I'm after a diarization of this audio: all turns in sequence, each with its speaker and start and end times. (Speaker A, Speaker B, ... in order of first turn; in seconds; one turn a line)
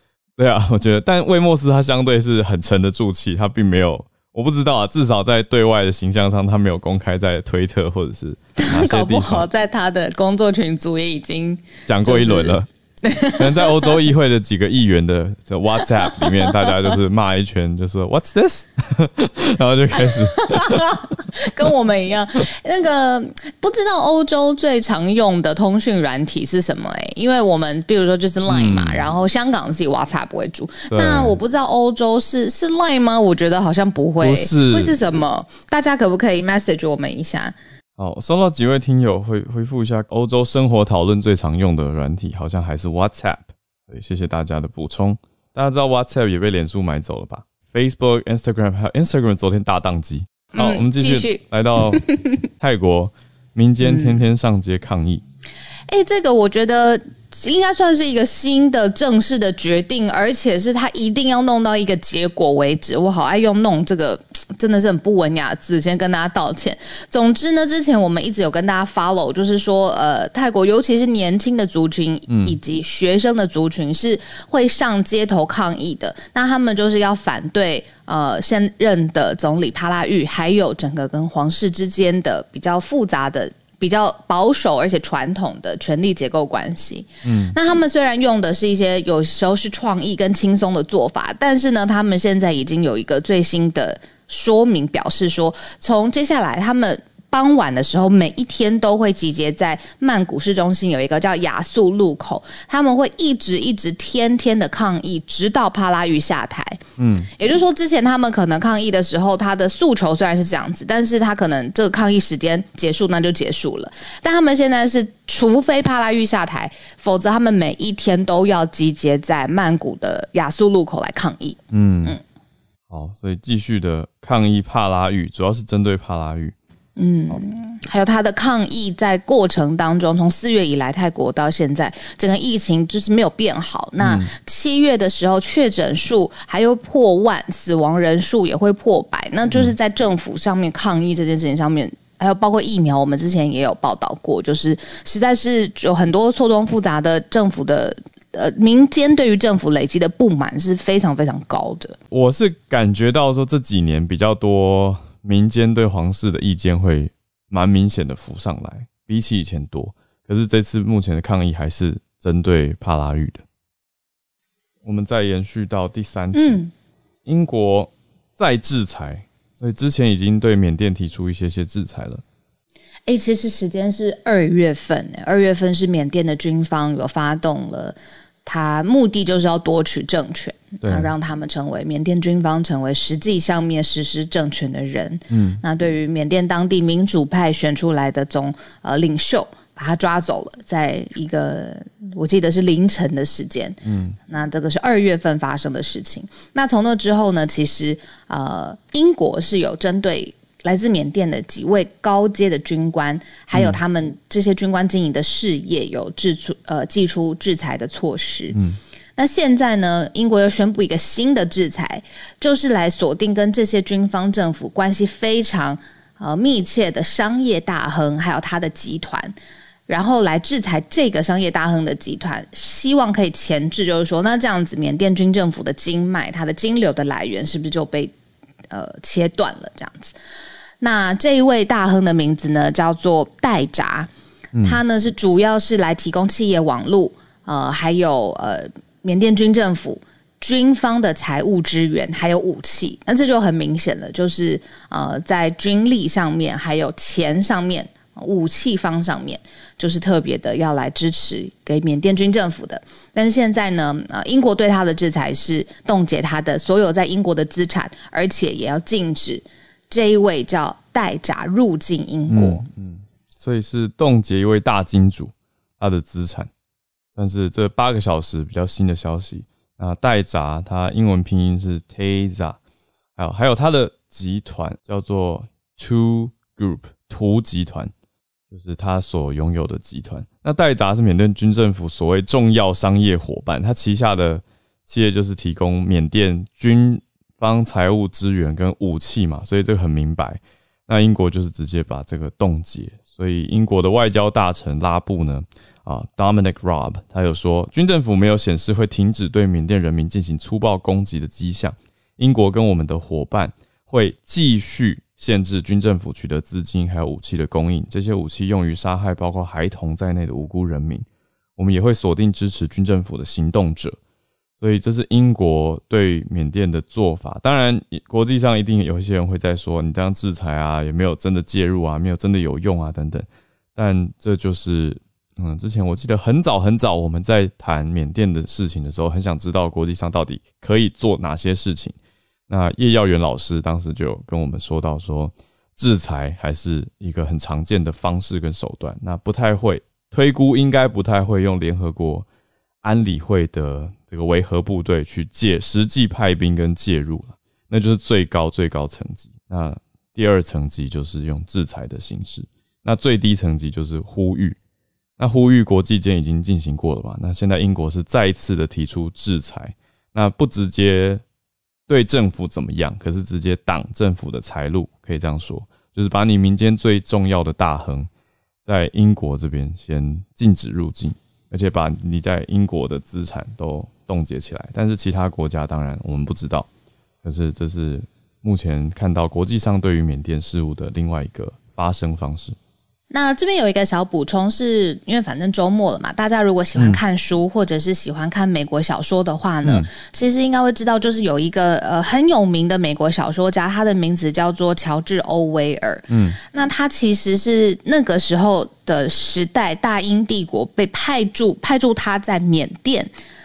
Speaker A: 0.4-9.5
Speaker B: 8.6-14.0
Speaker A: 11.8-12.7
Speaker A: 13.4-20.8
Speaker B: 16.0-16.9
Speaker B: 20.0-37.5
Speaker A: 28.5-29.1
Speaker A: 30.9-31.4
Speaker A: 34.2-35.0
Speaker A: 38.0-55.2
Speaker B: 50.5-52.4
Speaker B: 53.8-54.2
Speaker B: 55.9-122.2
Speaker A: 72.3-72.6
Speaker A: 87.2-87.5
Speaker A: 107.0-107.3
Speaker A: 121.7-122.2
Speaker A: 122.9-126.5
Speaker B: 127.0-152.0
Speaker A: 134.0-134.3
Speaker A: 152.1-163.4
Speaker A: 164.8-166.6
Speaker B: 166.3-166.7
Speaker A: 167.2-172.2
Speaker B: 173.1-208.6
Speaker A: 180.8-181.1
Speaker A: 185.3-185.6
Speaker A: 193.8-194.2
Speaker A: 203.5-203.8
Speaker A: 208.5-208.8
Speaker B: 209.2-219.3
Speaker B: 219.9-228.1
Speaker B: 228.7-230.1
Speaker B: 230.8-234.1
Speaker A: 234.5-234.8
Speaker B: 234.6-262.6
Speaker A: 262.3-266.5
Speaker A: 267.1-272.6
Speaker A: 273.2-277.9
Speaker A: 278.5-311.0
Speaker A: 311.6-314.0
Speaker A: 314.6-331.9
Speaker A: 332.5-342.2
Speaker A: 342.8-354.6
Speaker A: 355.2-361.2
Speaker A: 361.9-368.1
Speaker A: 368.6-376.7
Speaker A: 377.2-382.6
Speaker B: 383.1-403.1
Speaker A: 389.6-389.9
Speaker A: 396.1-396.4